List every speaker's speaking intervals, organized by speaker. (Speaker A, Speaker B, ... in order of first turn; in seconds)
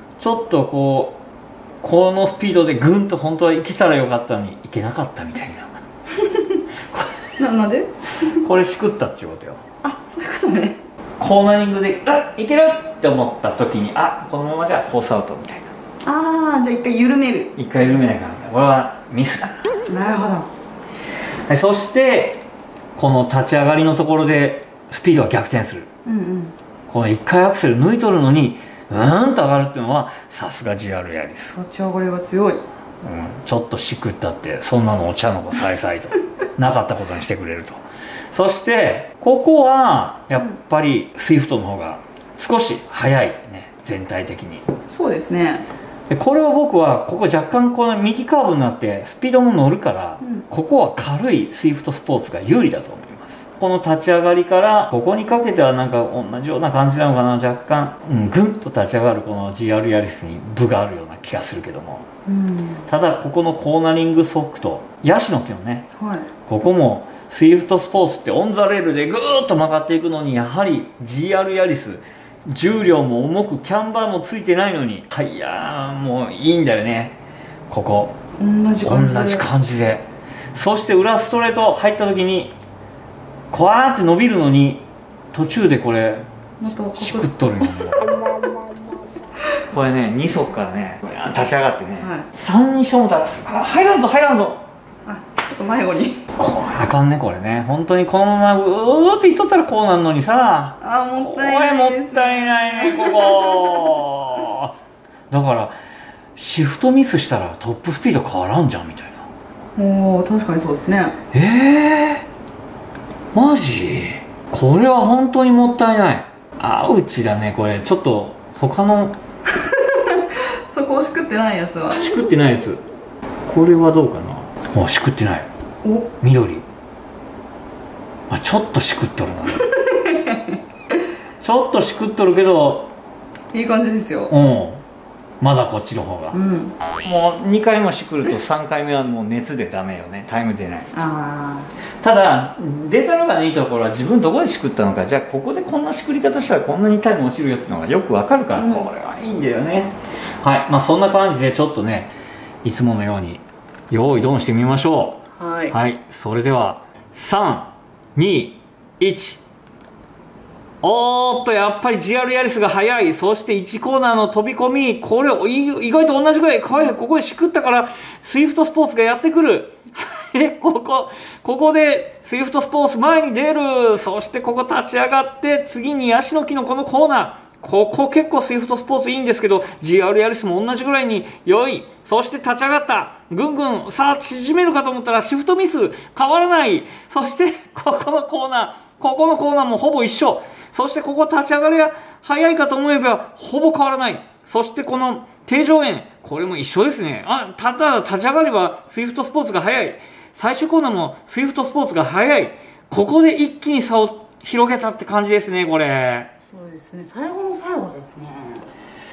Speaker A: 0.2-1.2, 1.8-5.8, 6.9-7.2, 8.4-9.6, 11.2-15.7, 17.6-19.6, 21.5-22.4, 22.9-25.9, 26.9-31.6, 33.0-37.8, 38.3-44.6, 46.1-62.0, 62.8-65.8, 66.5-77.2, 77.7-78.1, 78.8-82.5, 83.5-88.2, 89.7-94.6, 96.3-104.7, 105.3-105.7, 106.3-109.3, 111.3-112.2, 113.3-119.2, 121.9-122.8, 123.5-125.5, 126.2-126.6, 128.3-129.7, 131.4-132.9, 134.3-134.8, 135.4-136.4, 137.0-140.9, 142.0-159.4, 160.8-206.3
Speaker B: 7.4-7.9, 9.8-10.8, 16.0-17.5, 19.9-20.5, 26.1-26.5, 31.5-32.6, 44.9-45.6, 62.2-62.8, 66.0-66.3, 78.4-79.4, 86.6-87.3, 92.0-92.2, 95.0-96.2, 100.8-104.0, 109.8-111.2, 119.5-122.2, 125.8-126.1, 129.7-130.6, 133.5-134.3, 136.3-136.7, 140.9-141.7, 148.6-148.9, 155.4-155.8, 206.5-208.6